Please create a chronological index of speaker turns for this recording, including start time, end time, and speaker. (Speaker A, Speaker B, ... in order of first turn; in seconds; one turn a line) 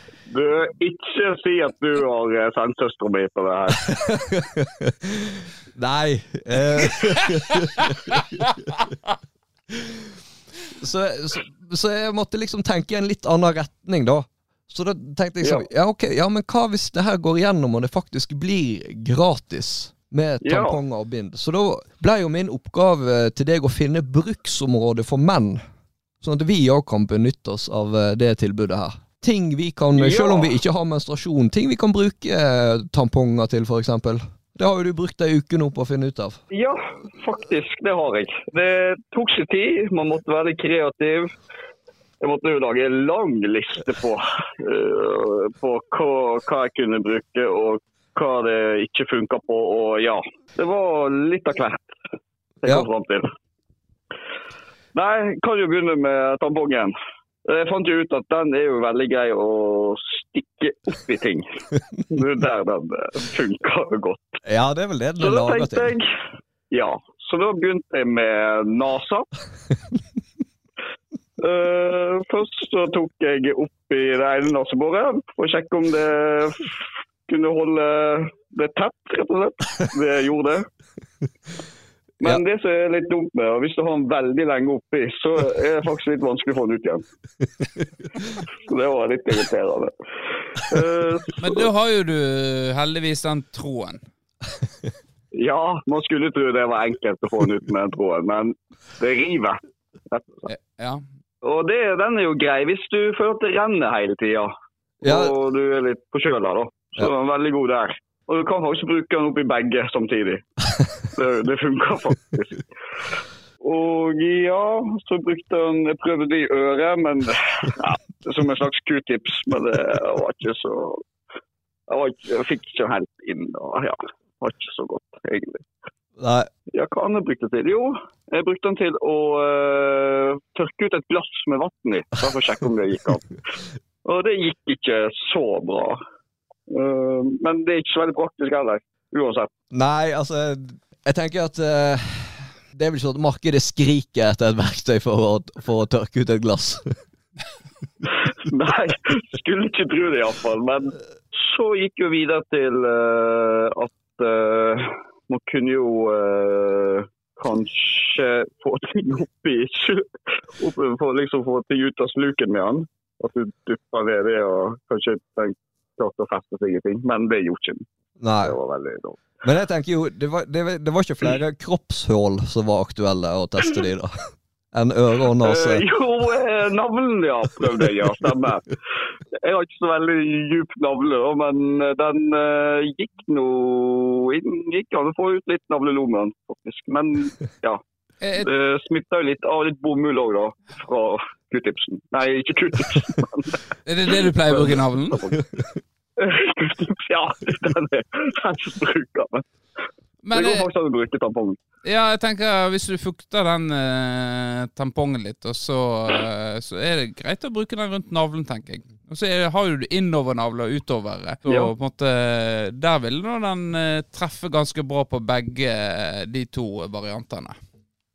Speaker A: 0.3-3.9
Speaker B: 3.8-8.8
Speaker C: 7.8-8.8
Speaker B: 9.7-10.1
Speaker B: 10.8-25.6
Speaker A: 15.4-15.7
Speaker A: 20.4-20.8
Speaker B: 26.2-36.4
Speaker A: 29.9-30.5
Speaker A: 36.5-41.3
Speaker A: 42.2-51.9
Speaker A: 52.6-53.3
Speaker A: 54.9-56.9
Speaker A: 57.4-61.5
Speaker A: 62.1-64.4
Speaker B: 64.4-65.9
Speaker A: 65.2-66.1
Speaker A: 66.7-69.3
Speaker A: 71.4-80.7
Speaker A: 82.2-87.0
Speaker A: 88.7-89.9
Speaker A: 90.5-91.7
Speaker C: 91.4-94.0
Speaker A: 95.3-99.6
Speaker A: 100.1-100.5
Speaker C: 100.5-101.0
Speaker A: 101.4-110.4
Speaker B: 105.0-105.3
Speaker A: 111.1-112.6
Speaker A: 113.6-121.0
Speaker A: 121.9-125.7
Speaker B: 126.2-126.5
Speaker A: 126.7-133.4
Speaker A: 134.0-136.0
Speaker A: 136.7-139.5
Speaker B: 139.7-147.0
Speaker A: 148.3-167.8
Speaker B: 168.2-168.6
Speaker A: 168.4-169.3
Speaker B: 169.4-174.1
Speaker B: 174.7-175.8
Speaker A: 175.4-178.8
Speaker A: 179.3-187.8
Speaker C: 188.2-188.5
Speaker A: 188.4-193.6
Speaker C: 193.8-195.3
Speaker A: 194.2-195.3
Speaker A: 196.2-199.4
Speaker C: 200.2-200.7
Speaker A: 200.3-201.6
Speaker C: 201.8-217.6
Speaker A: 211.4-211.7